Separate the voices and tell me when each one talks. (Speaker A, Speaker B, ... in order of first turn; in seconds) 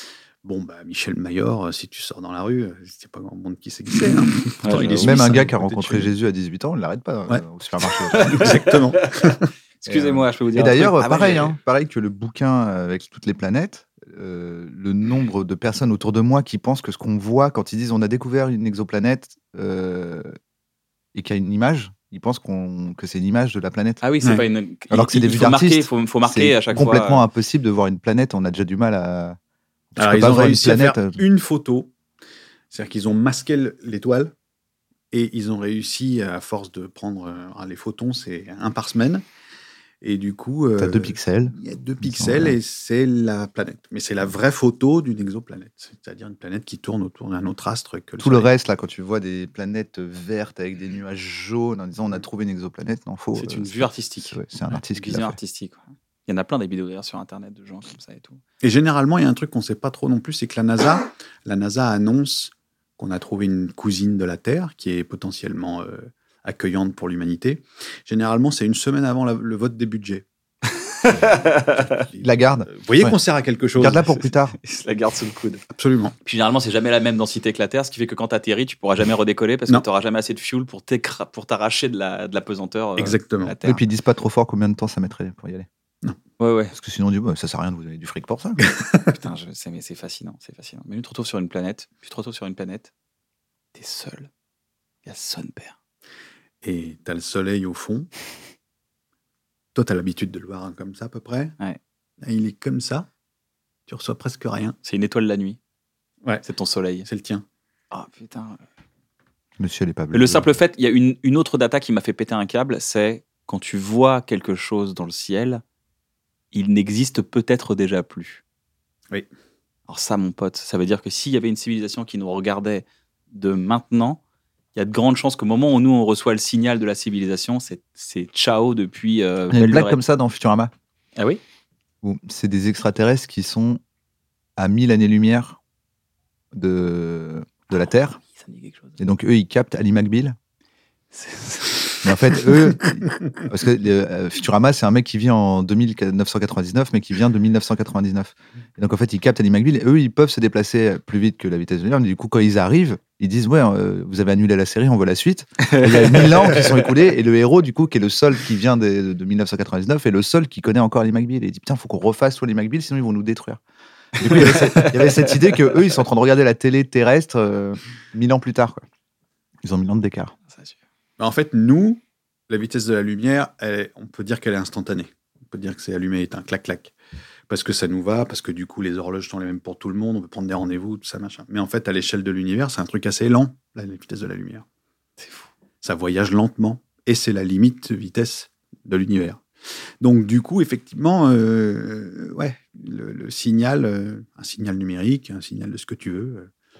Speaker A: 0.4-6.1, 8.1-9.5, 30.0-31.9, 32.7-34.3, 35.1-39.2, 40.0-48.5, 58.6-70.2, 72.0-74.0, 75.7-76.1, 83.0-83.5, 88.7-89.1, 96.6-98.1, 99.7-101.5, 102.2-103.1, 103.9-104.8, 107.0-107.4, 171.2-176.9, 177.5-184.6, 185.8-189.4, 190.0-196.5
Speaker B: 4.6-5.5, 8.1-9.3, 9.8-11.6, 24.0-27.2, 53.3-54.4, 54.9-58.4, 70.9-72.0, 74.6-75.6, 76.2-83.8, 86.4-86.7, 89.1-92.9, 93.7-94.3, 95.0-95.7, 104.8-105.6, 106.4-107.1, 107.9-108.6, 110.1-115.6, 116.5-118.4, 119.9-124.2, 124.7-130.0, 138.2-139.0, 141.1-142.4, 155.6-156.9, 164.2-165.6, 185.2-185.5
Speaker C: 4.8-8.6, 9.8-20.3, 21.1-24.0, 24.9-29.4, 29.9-31.2, 40.8-42.6, 48.2-55.4, 72.2-73.2, 73.8-74.6, 83.6-85.7, 86.7-88.6, 109.6-110.5, 129.5-130.7, 132.0-133.8, 134.6-135.6, 136.5-138.2, 139.0-140.4, 142.0-163.6, 164.1-168.8, 169.6-170.3